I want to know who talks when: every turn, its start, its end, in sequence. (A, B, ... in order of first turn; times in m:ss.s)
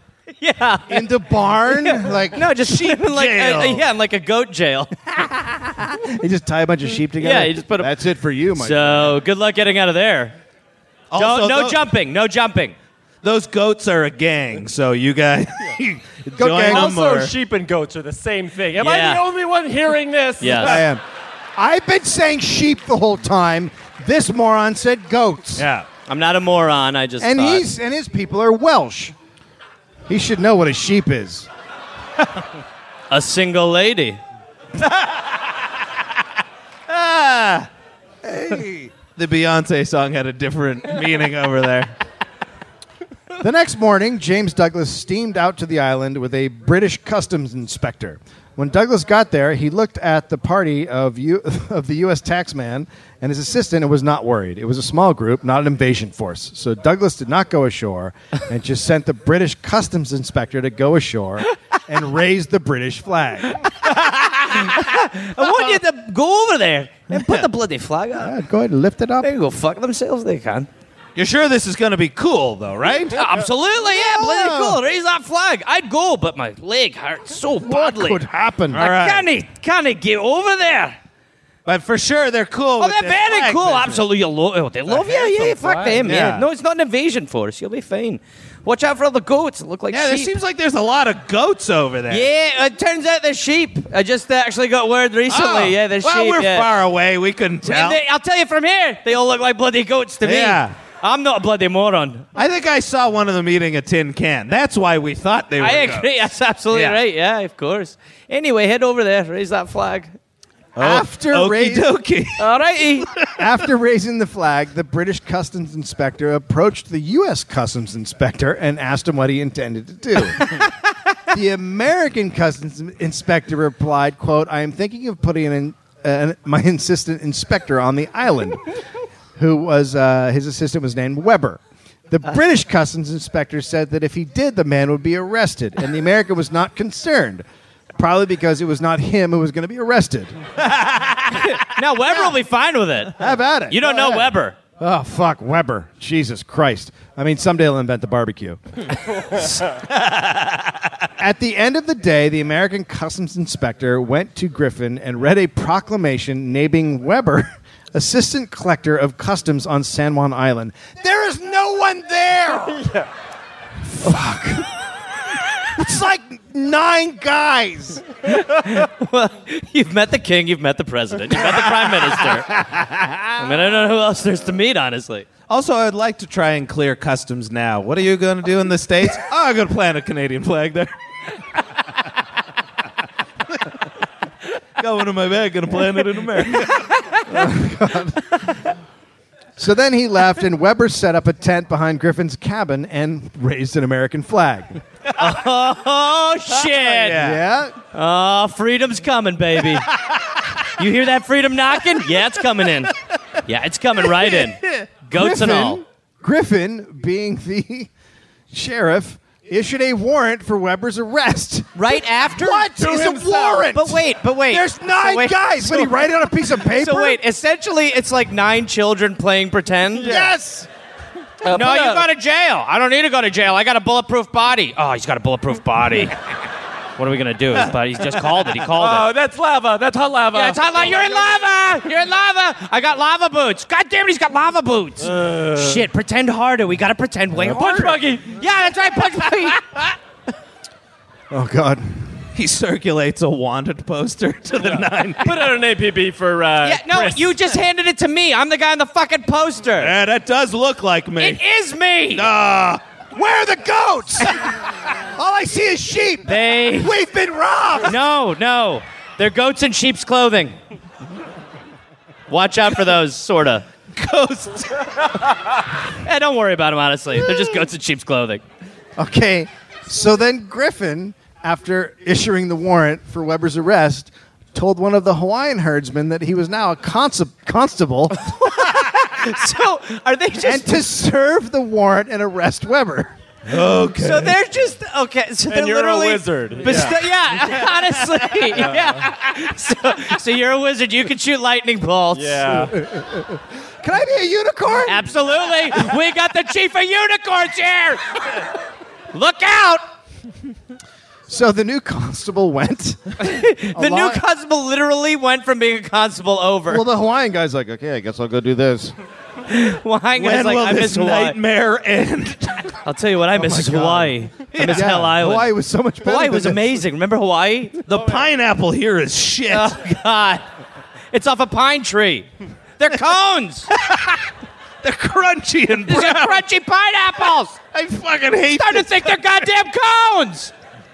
0:00.4-0:05.8 A
0:00.9-0:02.5 B
0:02.6-0:03.8 C
0:05.9-0:09.2 B
0:07.2-0:07.9 A
0:08.6-0:10.3 A
0:11.1-0:11.8 C
0:11.1-0:12.7 A
0:13.2-0:17.3 C
0:16.3-0:16.9 B
0:16.6-0:20.8 D
0:18.8-0:19.2 A
0:20.4-0:20.8 A
0:20.6-0:21.0 B
0:21.6-0:25.6 B
0:25.6-0:25.9 C
0:26.1-0:27.6 A
0:27.2-0:29.1 B
0:30.1-0:31.5 B
0:33.1-0:34.2 A
0:36.9-0:37.7 C
0:38.2-0:41.9 C
0:43.4-1:03.7 B
1:04.1-1:08.3 A
1:08.2-1:09.3 B
1:09.2-1:10.7 A
1:11.2-1:13.2 C
1:13.1-1:18.2 A
1:13.8-1:14.8 B
1:17.6-1:18.8 B
1:18.7-1:19.3 C
1:18.7-1:21.0 A
1:21.6-1:24.0 C
1:22.8-1:30.3 A
1:25.1-1:25.4 C
1:25.6-1:25.9 D
1:26.0-1:26.4 C
1:26.1-1:26.4 B
1:29.9-1:32.3 C
1:32.1-1:36.7 A
1:35.3-1:38.0 C
1:37.6-1:42.2 A
1:40.2-1:40.7 C
1:42.4-1:46.1 C
1:45.6-1:50.1 A
1:46.7-1:47.0 C
1:50.8-1:52.4 C
1:50.8-1:51.9 B
1:52.4-1:53.1 A
1:53.3-2:00.7 B
2:01.3-2:08.6 B
2:09.4-2:17.4 B
2:18.0-2:20.4 B
2:21.6-2:23.2 A
2:23.2-2:28.6 B
2:23.7-2:24.6 A
2:29.8-2:30.7 C
2:31.2-2:42.9 B
2:42.7-2:43.1 D
2:43.8-2:44.8 B
2:45.6-2:48.0 B
2:48.3-2:52.6 A
2:52.5-2:53.2 B
2:53.4-2:55.3 A
2:55.5-3:00.9 C
3:04.8-3:06.9 C
3:07.2-3:08.5 B
3:09.6-3:14.8 B
3:15.2-3:17.2 A
3:16.5-3:17.4 C
3:17.2-3:17.8 B
3:17.9-3:19.9 A
3:20.6-3:25.8 A
3:24.4-3:24.8 C
3:25.1-3:27.9 B
3:28.5-3:37.2 B
3:31.7-3:32.7 A
3:32.8-3:33.7 D
3:33.7-3:35.9 A
3:36.6-3:40.2 A
3:40.0-3:40.3 D
3:40.0-3:40.7 B
3:41.4-3:42.1 D
3:41.4-3:46.2 A
3:47.0-3:49.1 A
3:48.8-3:51.1 D
3:50.3-3:59.9 A
3:55.0-3:55.6 D
3:57.4-3:58.4 D
4:01.3-4:02.2 B
4:02.3-4:05.5 C
4:04.7-4:07.3 D
4:06.6-4:09.9 A
4:09.8-4:11.4 C
4:11.2-4:12.3 A
4:12.1-4:12.8 C
4:13.1-4:18.0 B
4:16.2-4:17.0 A
4:17.8-4:20.6 A
4:22.3-4:23.6 A
4:23.9-4:25.1 C
4:25.9-4:28.4 A
4:29.0-4:38.2 B
4:38.1-4:40.8 A
4:40.4-4:43.1 B
4:43.5-4:44.4 C
4:44.0-4:52.6 A
4:45.5-4:47.0 D
4:52.1-4:52.8 D
4:52.8-4:55.1 B
4:54.8-4:58.4 A
4:59.1-4:59.8 A
5:01.3-5:04.2 B
5:03.2-5:06.8 A
5:06.7-5:08.9 B
5:09.5-5:11.4 A
5:10.1-5:12.8 C
5:12.8-5:17.8 A
5:13.3-5:16.8 B
5:14.5-5:15.1 C
5:17.8-5:19.8 C
5:19.5-5:20.4 A
5:21.1-5:23.7 A
5:23.9-5:24.1 C
5:24.8-5:26.4 C
5:25.9-5:27.6 A
5:27.7-5:29.3 C
5:28.6-5:30.5 A